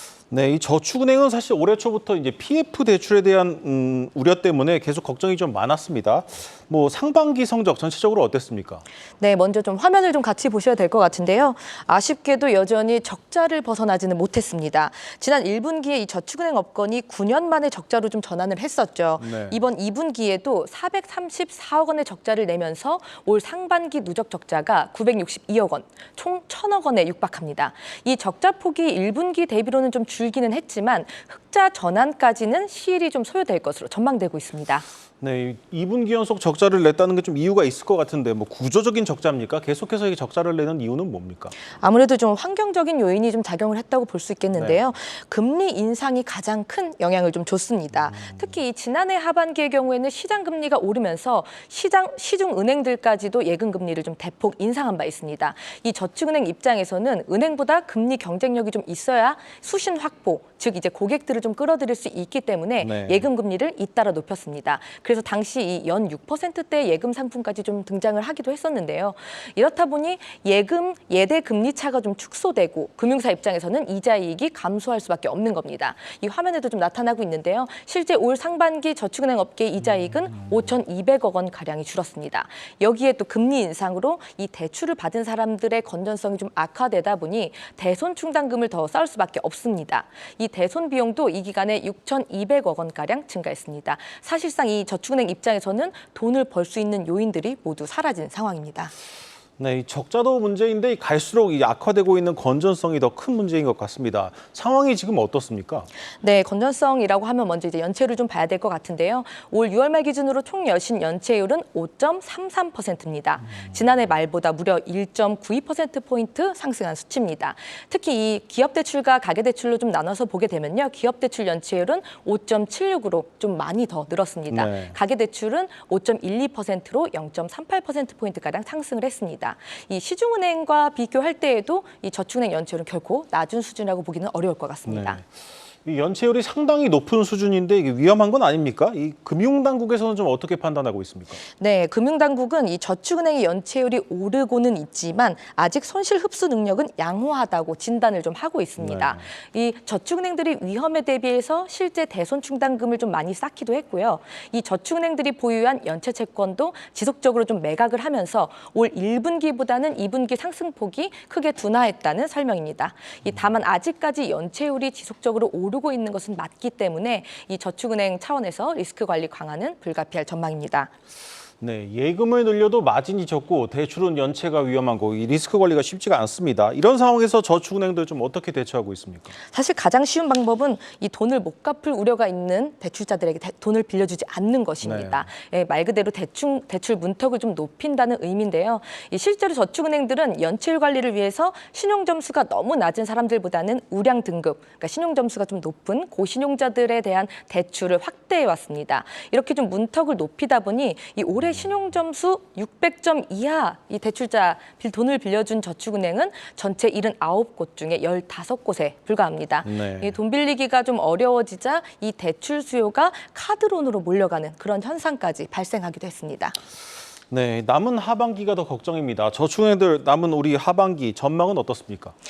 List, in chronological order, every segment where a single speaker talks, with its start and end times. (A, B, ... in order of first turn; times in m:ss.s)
0:00.3-0:08.8 A
0:09.2-0:34.8 B
0:19.2-0:19.6 A
0:35.2-0:41.5 A
0:41.7-1:38.9 B
1:02.8-1:03.3 A
1:39.6-1:45.9 A
1:46.2-2:15.2 B
2:04.5-2:05.0 A
2:14.9-2:15.2 A
2:15.8-2:21.4 A
2:21.6-2:50.9 B
2:28.8-2:29.2 A
2:51.6-2:59.4 A
2:59.5-3:36.6 B
3:04.8-3:05.3 A
3:29.6-3:30.2 A
3:37.3-3:42.2 A